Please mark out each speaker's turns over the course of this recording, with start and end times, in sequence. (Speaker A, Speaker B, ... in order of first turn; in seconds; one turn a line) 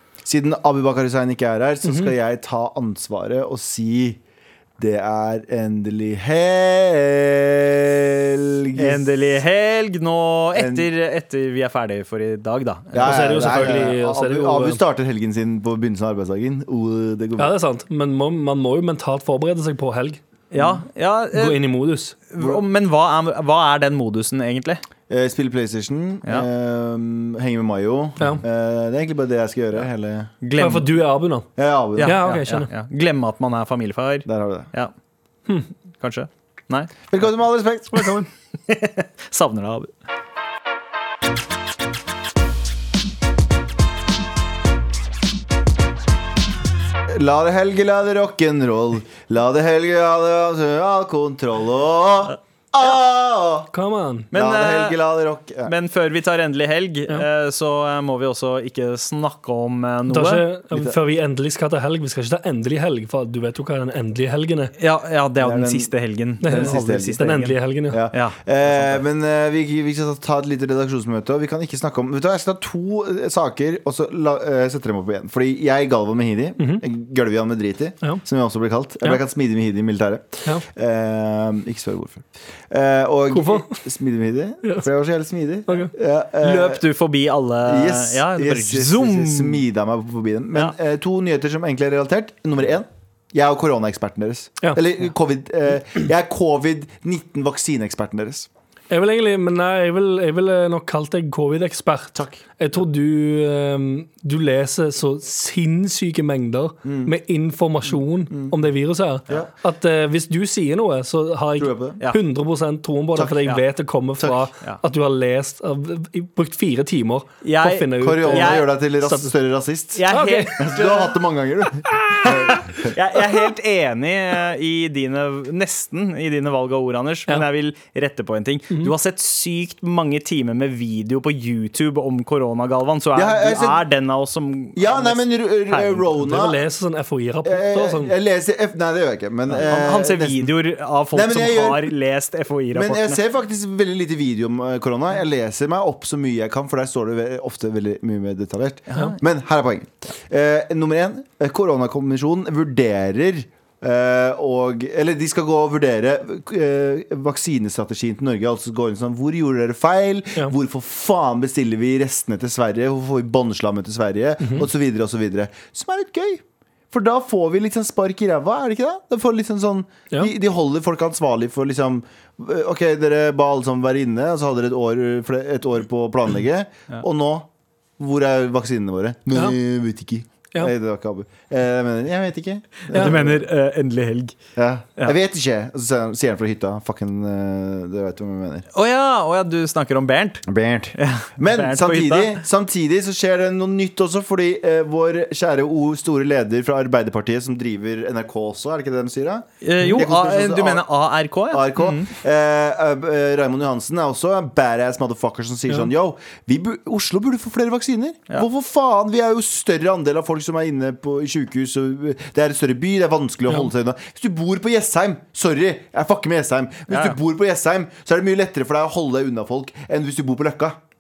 Speaker A: 0.2-4.2
Speaker B: 1.8-2.1
Speaker A: 4.8-9.4
Speaker C: 8.8-13.6
Speaker A: 10.6-10.9
Speaker A: 12.9-17.6
Speaker B: 13.0-14.8
Speaker B: 17.4-20.2
Speaker C: 20.5-21.6
Speaker A: 20.6-20.8
Speaker B: 21.3-22.2
Speaker C: 22.3-24.8
Speaker A: 22.4-22.6
Speaker A: 25.1-30.3
Speaker C: 30.4-30.9
Speaker B: 30.6-31.5
Speaker A: 31.6-32.2
Speaker C: 32.0-34.9
Speaker B: 32.0-32.7
Speaker A: 34.3-34.7
Speaker C: 36.0-37.0
Speaker A: 37.1-38.2
Speaker B: 37.9-38.3
Speaker C: 38.7-39.9
Speaker A: 47.1-53.7
Speaker C: 52.3-53.0
Speaker B: 53.7-54.3
Speaker C: 54.3-55.0
Speaker A: 54.3-55.7
Speaker C: 55.6-60.5
Speaker B: 60.1-64.8
Speaker A: 60.7-61.0
Speaker C: 64.8-67.6
Speaker A: 65.4-65.9
Speaker B: 66.4-68.0
Speaker A: 66.4-67.3
Speaker A: 67.9-86.8
Speaker C: 68.1-69.0
Speaker B: 76.6-76.8
Speaker B: 83.3-83.8
Speaker B: 85.7-85.9
Speaker C: 86.4-89.6
Speaker A: 87.6-98.5
Speaker B: 98.9-119.3
Speaker A: 102.2-102.4
Speaker A: 106.8-107.1
Speaker A: 108.3-108.6
Speaker A: 111.6-112.0
Speaker A: 114.2-114.5
Speaker C: 117.4-118.7
Speaker A: 118.0-120.0
Speaker C: 120.0-121.2
Speaker B: 120.1-120.6
Speaker A: 120.6-123.0
Speaker B: 122.0-122.5
Speaker C: 122.7-136.1
Speaker A: 133.2-133.8
Speaker A: 134.8-136.6
Speaker B: 136.2-138.2
Speaker A: 137.4-140.6
Speaker C: 139.5-143.2
Speaker A: 141.1-141.9
Speaker A: 142.7-177.5
Speaker C: 148.9-149.2
Speaker B: 164.4-164.7
Speaker A: 178.0-183.4
Speaker C: 182.9-184.4
Speaker B: 182.9-183.2
Speaker A: 184.6-188.7
Speaker C: 188.7-192.4
Speaker A: 190.5-200.9
Speaker C: 199.6-202.1
Speaker A: 201.5-220.8
Speaker C: 216.9-217.2